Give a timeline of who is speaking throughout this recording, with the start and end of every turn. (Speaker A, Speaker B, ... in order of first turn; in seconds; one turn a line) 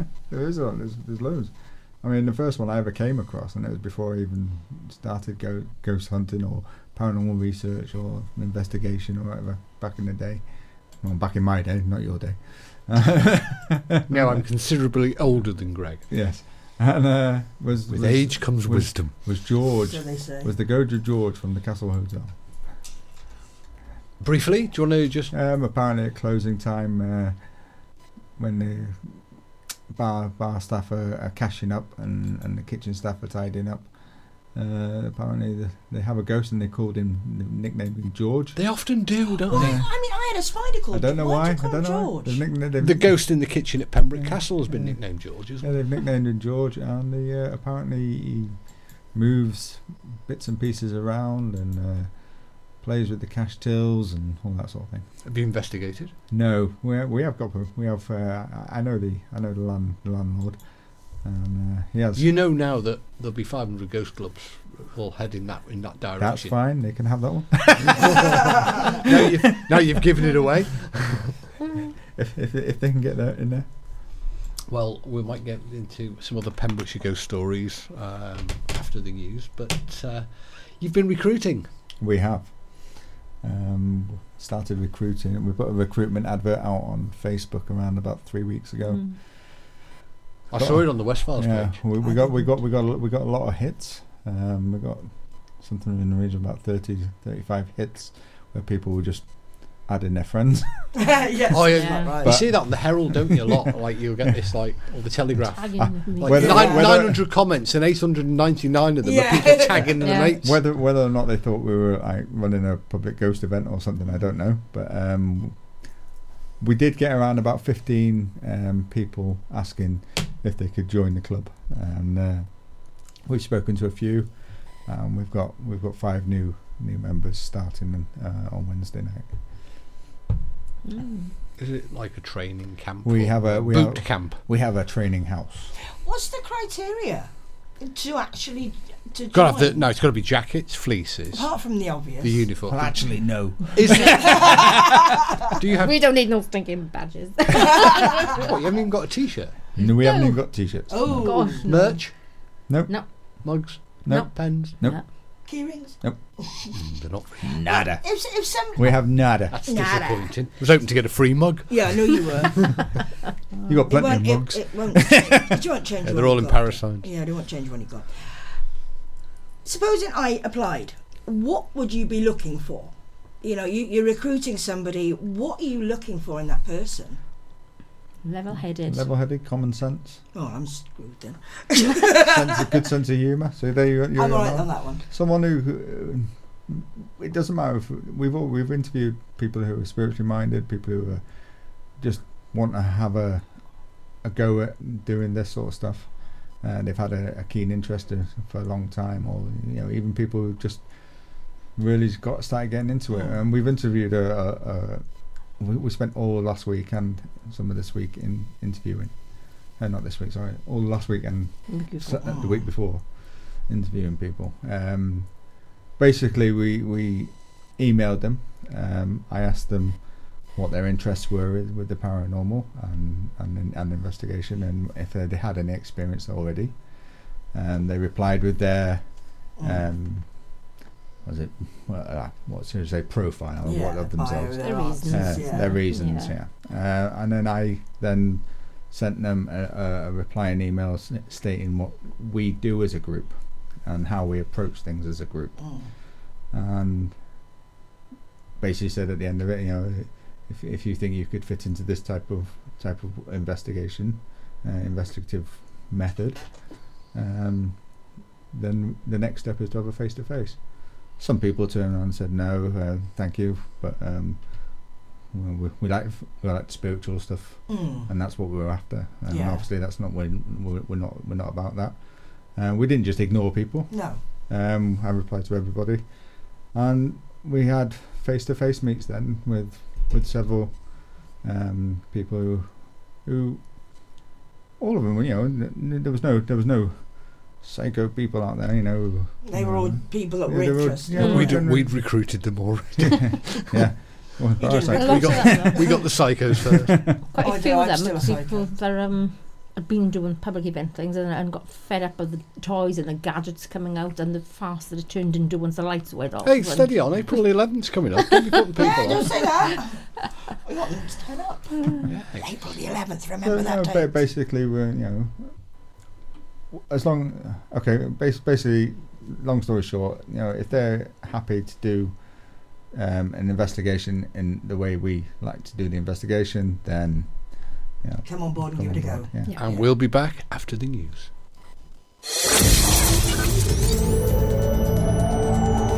Speaker A: 0.1-14.4
Speaker B: 14.1-16.1
Speaker A: 16.1-22.6
Speaker B: 17.9-19.4
Speaker C: 19.6-20.5
Speaker B: 24.2-25.3
Speaker A: 25.3-39.9
Speaker B: 38.5-39.9
Speaker C: 39.4-42.5
Speaker A: 40.9-55.2
Speaker B: 42.8-45.7
Speaker B: 55.2-56.1
Speaker A: 56.3-62.3
Speaker B: 62.1-66.9
Speaker A: 66.2-68.1
Speaker B: 67.9-68.1
Speaker B: 69.0-71.2
Speaker A: 72.1-73.7
Speaker B: 74.7-81.7
Speaker A: 82.0-89.7
Speaker D: 88.8-89.2
Speaker B: 90.5-91.9
Speaker A: 90.5-100.9
Speaker C: 92.0-92.5
Speaker C: 100.9-102.7
Speaker B: 101.5-110.5
Speaker D: 101.7-102.2
Speaker A: 102.2-103.6
Speaker D: 105.5-106.7
Speaker A: 105.8-107.2
Speaker C: 106.2-107.0
Speaker C: 109.0-110.5
Speaker D: 110.0-110.4
Speaker A: 110.4-129.6
Speaker D: 130.8-131.3
Speaker B: 131.6-134.4
Speaker A: 133.0-135.7
Speaker C: 135.8-139.9
Speaker B: 139.3-144.7
Speaker C: 141.3-142.6
Speaker A: 142.7-143.9
Speaker C: 144.0-144.9
Speaker B: 145.6-146.1
Speaker D: 145.8-148.4
Speaker B: 148.3-149.6
Speaker A: 149.8-151.3
Speaker D: 149.8-155.2
Speaker C: 150.9-152.0
Speaker B: 151.6-152.7
Speaker A: 152.6-155.4
Speaker B: 153.4-154.8
Speaker C: 155.2-156.7
Speaker A: 156.0-156.3
Speaker B: 156.7-157.6
Speaker A: 157.5-159.6
Speaker C: 157.7-160.4
Speaker B: 158.9-162.7
Speaker C: 161.7-163.0
Speaker A: 163.7-165.6
Speaker C: 163.9-168.6
Speaker B: 166.0-167.1
Speaker C: 169.6-177.2
Speaker D: 178.2-179.1
Speaker A: 178.5-180.2
Speaker C: 180.3-182.8
Speaker A: 182.3-247.4
Speaker C: 184.1-185.1
Speaker C: 203.1-203.4
Speaker D: 211.7-212.2
Speaker C: 212.1-212.7
Speaker C: 229.6-229.9
Speaker C: 233.6-235.8
Speaker D: 234.5-236.4
Speaker C: 245.6-245.9
Speaker A: 248.6-284.2
Speaker C: 267.7-268.1
Speaker C: 269.3-269.7
Speaker C: 273.9-274.3
Speaker A: 284.8-292.7
Speaker C: 289.4-291.7
Speaker B: 291.1-293.6
Speaker D: 291.1-291.5
Speaker A: 293.7-296.3
Speaker C: 294.6-295.9
Speaker B: 294.9-297.2
Speaker D: 294.9-296.2
Speaker D: 297.3-307.7
Speaker C: 297.4-298.8
Speaker B: 306.4-309.5
Speaker C: 308.8-310.1
Speaker C: 310.6-314.2
Speaker B: 312.1-313.0
Speaker A: 313.4-316.0
Speaker A: 316.7-329.5
Speaker C: 328.2-329.9
Speaker D: 329.4-329.8
Speaker B: 329.5-331.3